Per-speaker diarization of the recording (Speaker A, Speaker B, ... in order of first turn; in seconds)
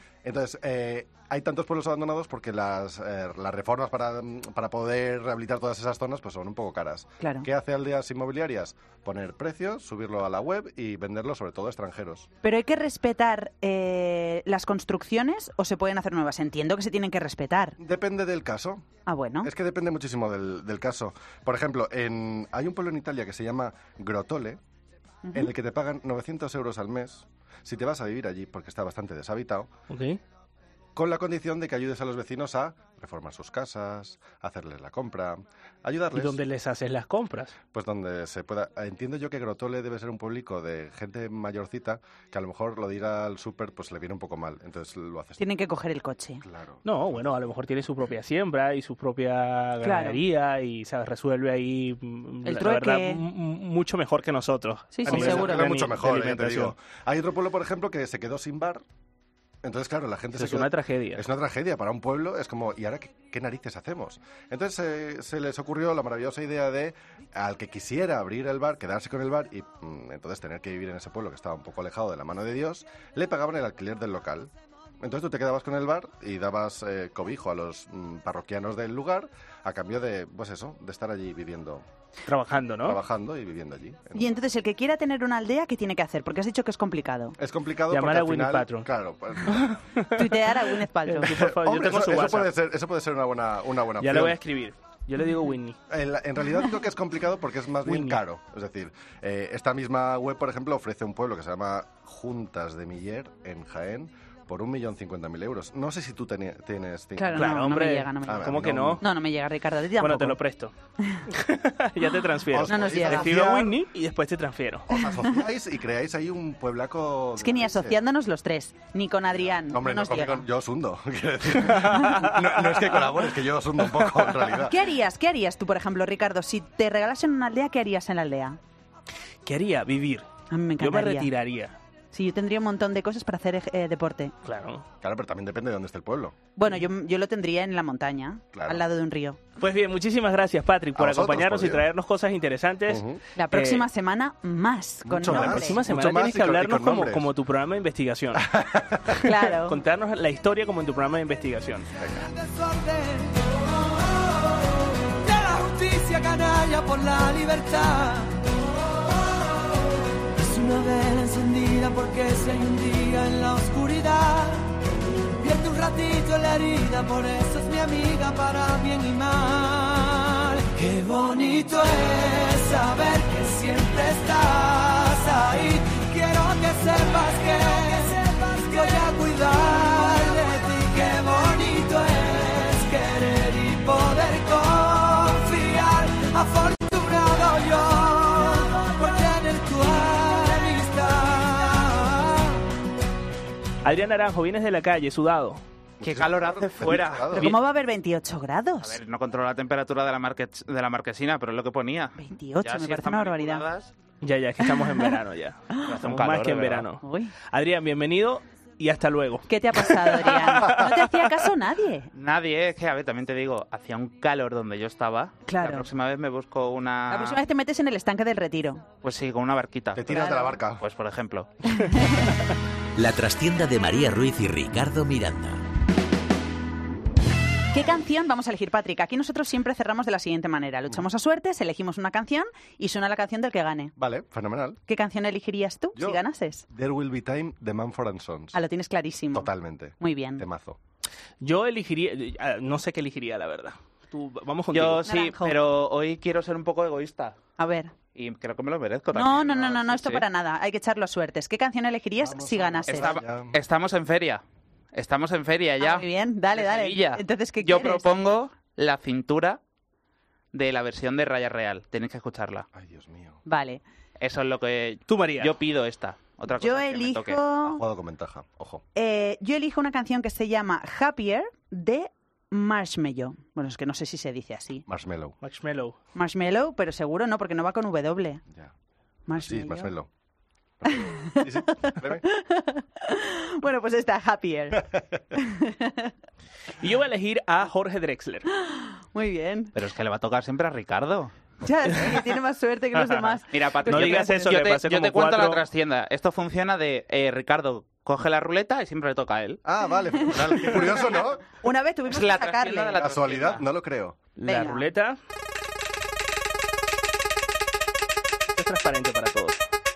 Speaker A: 0.2-12.3, 17.8-18.8, 19.4-24.6, 25.3-29.7, 30.9-36.4, 37.7-45.4, 46.4-47.3, 55.0-58.8, 59.6-81.8, 82.8-84.3, 87.4-89.8, 91.2-94.4, 95.9-107.7, 108.2-109.0, 112.5-113.8, 114.9-118.0, 119.4-124.8, 135.0-136.3, 138.5-138.8, 140.9-141.9, 142.9-143.2, 145.0-147.3, 148.3-149.2, 152.0-152.3, 196.0-197.5, 219.9-220.8, 234.0-234.8, 235.9-238.6, 239.3-240.8, 252.2-253.6, 262.7-263.4, 267.6-268.8, 274.9-275.4, 279.4-280.1, 280.8-282.2, 284.8-285.2, 299.6-301.4, 303.0-304.2
Speaker B: 7.2-7.5, 12.4-17.8, 19.1-19.5, 25.2-25.5, 45.4-46.4, 49.8-50.2, 52.4-53.2, 54.9-55.6, 84.1-87.4, 90.1-91.3, 107.2-110.4, 112.7-113.3, 117.4-120.4, 124.6-128.6, 130.5-131.3, 132.1-134.3, 136.6-139.4, 143.4-145.8, 149.2-149.8, 197.3-199.0, 202.2-203.7, 204.6-205.1, 207.0-207.3, 209.5-212.1, 215.4-215.9, 217.1-218.9, 220.1-220.5, 221.7-222.3, 227.7-233.9, 234.9-236.7, 238.5-240.4, 245.1-245.6, 247.6-247.9, 249.1-253.2, 255.8-258.2, 263.4-263.8, 266.5-267.8, 268.9-274.8, 276.1-278.4, 279.3-279.9, 281.0-286.1, 288.6-289.7, 291.6-294.5, 301.6-303.0, 304.4-304.9
Speaker C: 29.9-30.2, 36.1-37.5, 46.8-56.7, 60.3-61.2, 82.3-83.0, 87.9-88.9, 89.5-92.5, 94.0-95.8, 97.8-98.2, 107.3-109.0, 110.0-110.7, 111.3-114.9, 121.7-122.2, 129.4-130.2, 130.8-131.7, 134.4-134.8, 139.6-143.8, 145.3-148.5, 149.5-151.9, 193.8-195.6, 204.2-210.3, 241.4-245.1, 265.1-265.6, 275.4-275.9, 286.8-288.5, 291.9-292.2, 293.9-295.6, 304.4-305.2, 308.5-309.6
Speaker D: 152.2-153.4, 155.2-158.4, 160.3-164.7, 165.4-192.5
Speaker E: 196.0-197.5, 198.8-203.9, 205.9-206.9, 212.1-217.4, 219.0-221.8, 244.7-247.3, 248.1-250.2, 252.9-254.4, 254.9-259.6, 260.5-262.6, 264.2-267.4, 289.7-291.3, 293.5-299.6, 302.1-303.6
Speaker F: 223.0-225.6